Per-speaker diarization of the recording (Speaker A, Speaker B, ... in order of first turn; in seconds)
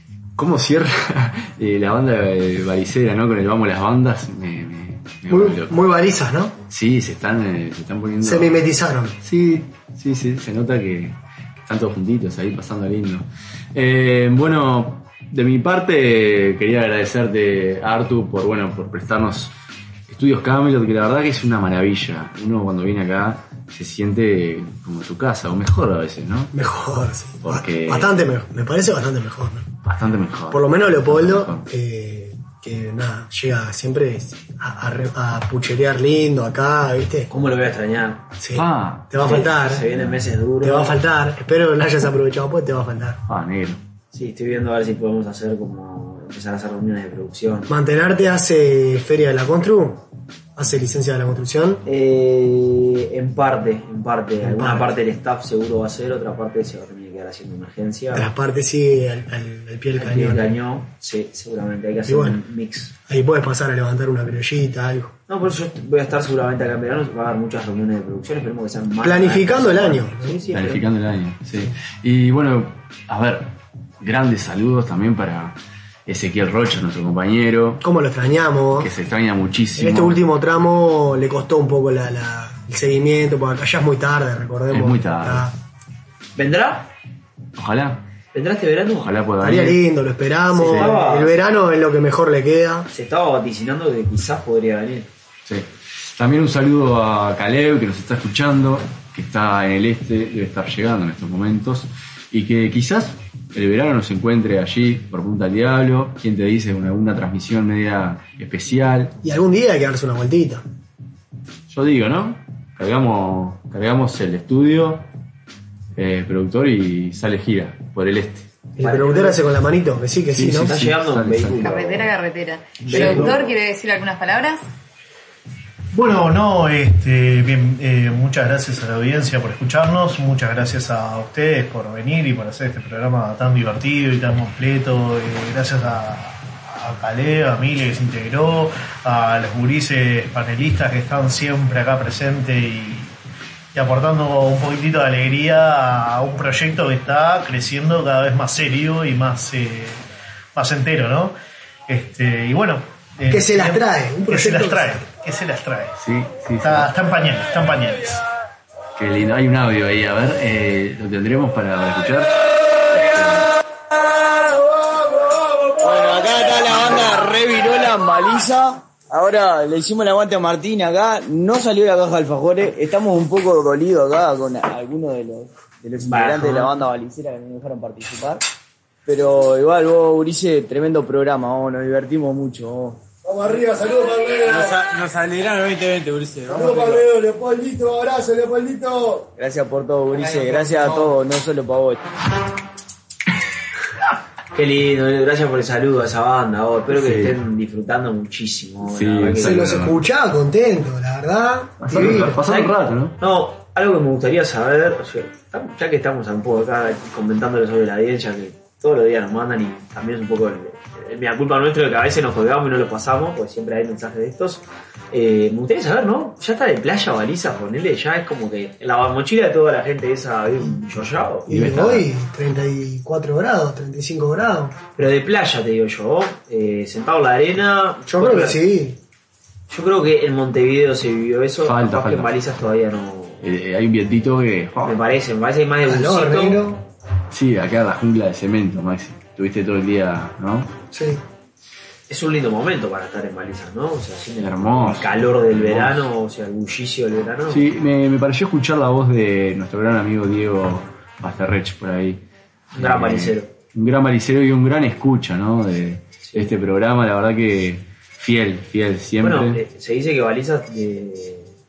Speaker A: 0.4-5.8, 6.7-8.6, 9.2-19.5, 20.1-26.5, 27.4-28.1, 29.8-31.7, 38.5-40.2, 43.3-43.8, 70.5-75.5, 76.1-77.8, 78.8-80.2, 84.7-85.5, 87.6-88.0, 89.0-89.8, 95.5-109.2, 111.7-115.1, 116.0-118.5, 120.3-122.0, 156.0-156.9, 159.0-162.3, 162.9-163.5, 196.9-197.4, 198.8-200.0, 201.8-203.2, 221.5-222.1, 231.6-232.3, 233.4-235.0, 237.3-240.7, 244.4-246.1, 247.5-252.2, 252.8-259.6
Speaker B: 5.3-6.6, 8.2-9.2, 26.5-29.7, 30.5-37.3, 38.4-39.9, 40.6-43.2, 47.7-50.0, 50.6-51.8, 54.4-54.9, 58.1-60.6, 62.1-62.4, 63.1-65.2, 69.0-70.4, 77.8-78.9, 79.8-85.5, 89.4-92.9, 109.2-110.6, 118.8-120.7, 122.9-123.3, 153.3-155.1, 199.4-202.4, 221.5-224.8, 228.1-229.0, 235.8-236.8, 240.9-241.2
Speaker C: 37.3-38.3, 39.2-41.0, 44.1-47.7, 51.9-58.3, 60.0-62.9, 65.3-70.8, 86.4-86.9, 88.3-89.1, 90.5-91.3, 92.9-95.1, 118.8-119.4, 120.6-122.1, 122.8-123.5, 176.1-176.7, 194.5-199.6, 202.4-221.5, 225.0-228.6, 229.7-233.4, 234.8-236.6, 242.1-247.6, 252.7-253.5, 256.2-256.5, 259.2-261.5
Speaker D: 121.6-124.6
Speaker E: 125.9-143.1, 143.7-151.3, 151.9-156.0, 156.6-158.2
Speaker F: 165.8-178.4, 179.1-183.0, 184.4-187.0, 189.4-192.0
Speaker G: 183.2-184.8, 186.5-189.3